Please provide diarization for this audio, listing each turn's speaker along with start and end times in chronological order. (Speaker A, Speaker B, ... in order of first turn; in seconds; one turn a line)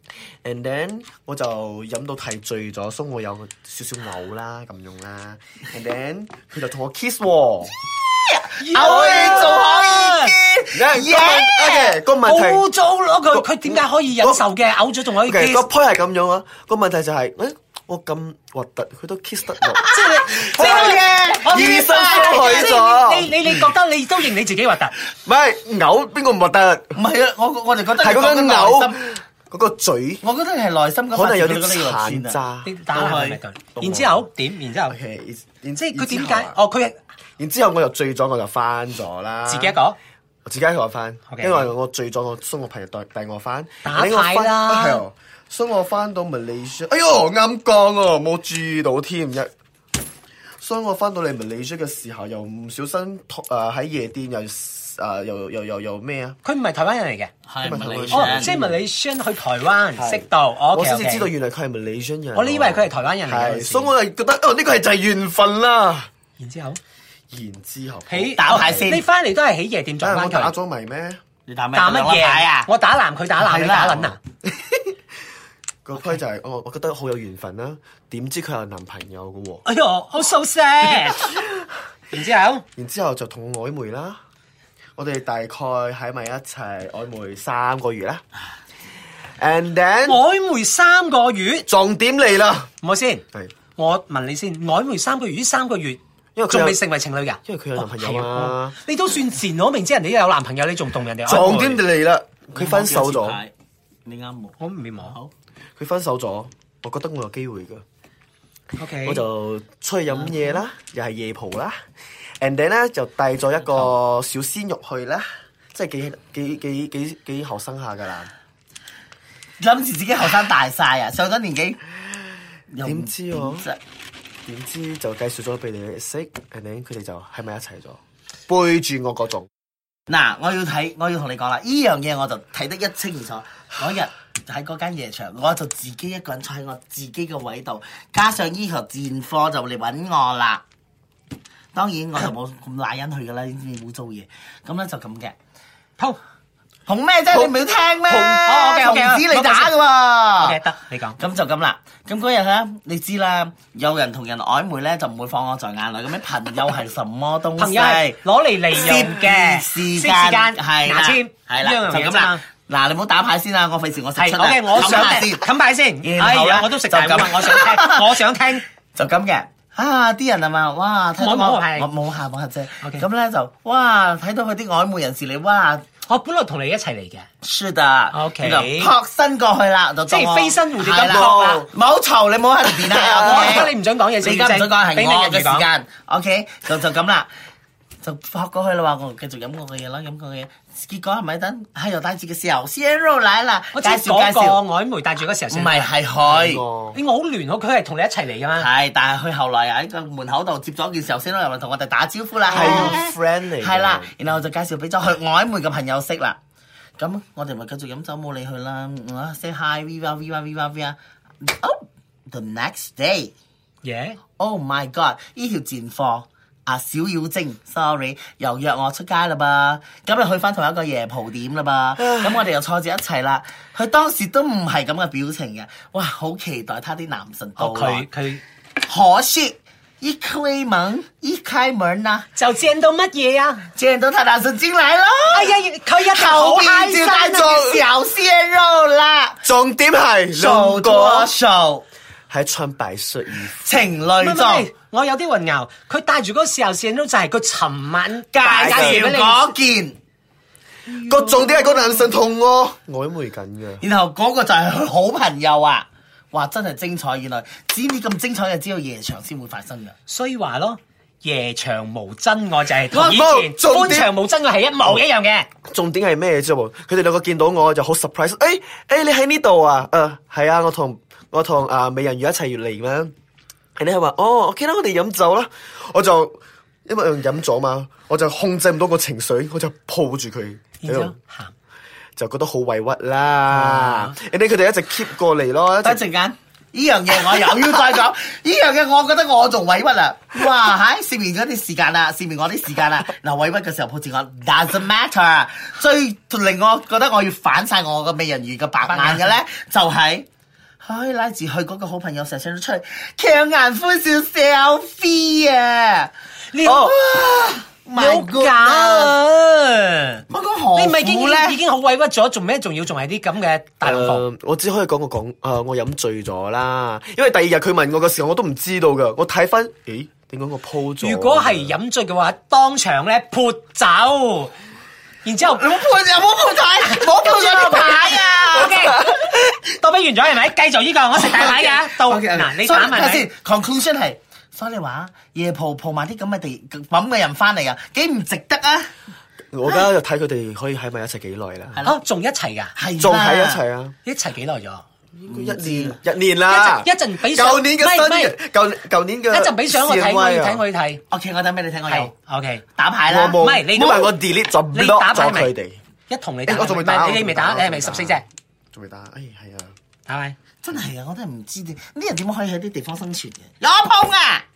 Speaker A: 0.4-7.8
Speaker B: 8.2-12.0
Speaker C: 8.6-10.3
Speaker A: 8.8-9.7
Speaker A: 10.7-12.7
Speaker C: 12.2-15.7
Speaker A: 13.3-14.5
Speaker A: 15.2-23.6
Speaker B: 19.8-22.8
Speaker C: 19.9-24.9
Speaker A: 25.3-27.0
Speaker B: 26.9-29.0
Speaker A: 28.0-30.2
Speaker B: 30.2-33.4
Speaker A: 31.1-32.8
Speaker C: 32.6-35.0
Speaker A: 33.8-34.3
Speaker A: 34.9-36.6
Speaker C: 35.8-37.0
Speaker A: 37.4-39.8
Speaker C: 39.5-40.0
Speaker A: 40.5-49.5
Speaker C: 41.3-41.7
Speaker C: 43.9-45.0
Speaker A: 50.6-56.4
Speaker C: 56.4-57.3
Speaker B: 57.5-58.6
Speaker A: 57.6-58.8
Speaker C: 58.1-61.3
Speaker A: 60.0-66.1
Speaker C: 62.3-63.9
Speaker C: 66.4-66.8
Speaker A: 67.3-69.0
Speaker C: 68.1-70.5
Speaker B: 68.4-69.0
Speaker A: 70.0-71.2
Speaker B: 71.5-72.7
Speaker C: 71.7-74.2
Speaker B: 73.4-74.2
Speaker A: 75.8-79.7
Speaker C: 79.7-81.4
Speaker C: 82.1-82.6
Speaker A: 82.8-84.2
Speaker A: 85.0-88.2
Speaker A: 89.4-90.2
Speaker C: 90.1-91.7
Speaker A: 91.7-92.7
Speaker C: 92.8-93.2
Speaker C: 93.8-101.8
Speaker A: 96.4-96.8
Speaker A: 97.5-98.8
Speaker A: 101.2-103.4
Speaker B: 102.5-103.5
Speaker B: 104.1-105.3
Speaker C: 104.6-105.2
Speaker A: 105.8-107.8
Speaker C: 108.8-109.2
Speaker A: 109.0-111.8
Speaker A: 112.4-118.3
Speaker B: 119.6-121.8
Speaker B: 122.7-123.8
Speaker A: 122.8-123.7
Speaker A: 124.5-129.5
Speaker B: 130.1-140.6
Speaker B: 141.7-145.3
Speaker B: 146.9-150.6
Speaker A: 147.3-148.4
Speaker C: 148.5-149.7
Speaker C: 150.4-151.2
Speaker B: 151.2-158.2
Speaker C: 157.6-162.4
Speaker B: 158.7-165.5
Speaker C: 164.2-168.6
Speaker B: 166.0-168.1
Speaker B: 168.9-175.8
Speaker C: 171.2-171.9
Speaker C: 176.1-177.3
Speaker B: 177.4-187.3
Speaker C: 178.1-178.9
Speaker C: 180.1-181.6
Speaker A: 181.0-181.7
Speaker C: 182.9-185.7
Speaker B: 188.0-194.6
Speaker C: 193.7-195.9
Speaker B: 195.5-196.6
Speaker A: 196.3-197.0
Speaker C: 196.9-198.7
Speaker B: 198.6-206.4
Speaker A: 202.5-204.2
Speaker C: 202.6-202.9
Speaker B: 207.0-213.3
Speaker C: 213.8-214.2
Speaker B: 214.4-228.1
Speaker A: 222.0-222.4
Speaker C: 227.6-228.4
Speaker B: 228.9-232.3
Speaker C: 232.4-233.7
Speaker B: 233.8-239.4
Speaker C: 235.3-237.6
Speaker A: 239.4-241.3
Speaker B: 240.3-241.8
Speaker A: 242.3-243.7
Speaker B: 243.6-244.7
Speaker C: 244.2-249.5
Speaker B: 248.3-250.0
Speaker A: 251.0-253.8
Speaker B: 251.1-252.0
Speaker B: 253.8-259.9
Speaker C: 260.1-265.5
Speaker A: 262.9-264.1
Speaker A: 265.7-273.1
Speaker A: 273.8-281.1
Speaker C: 280.8-281.5
Speaker A: 282.2-286.0
Speaker C: 283.5-284.1
Speaker B: 285.8-300.3
Speaker C: 298.9-299.4
Speaker B: 300.8-306.1
Speaker C: 306.5-306.9
Speaker A: 306.6-306.9
Speaker B: 306.7-309.2
Speaker C: 307.9-310.2
Speaker B: 310.3-311.6
Speaker C: 310.8-314.2
Speaker A: 313.8-321.8
Speaker C: 321.0-324.5
Speaker C: 325.2-325.6
Speaker B: 325.4-329.0
Speaker C: 326.9-333.3
Speaker B: 331.1-338.9
Speaker A: 339.5-341.8
Speaker C: 341.8-342.7
Speaker B: 342.8-343.6
Speaker A: 343.0-343.9
Speaker C: 344.1-344.8
Speaker A: 345.2-350.6
Speaker B: 345.3-346.0
Speaker C: 346.5-348.4
Speaker C: 349.3-351.0
Speaker B: 351.1-352.1
Speaker C: 351.9-352.6
Speaker B: 352.8-353.4
Speaker A: 353.1-355.8
Speaker C: 353.4-354.1
Speaker C: 354.7-355.5
Speaker C: 356.1-358.2
Speaker A: 356.5-359.7
Speaker C: 360.1-360.4
Speaker B: 360.6-364.4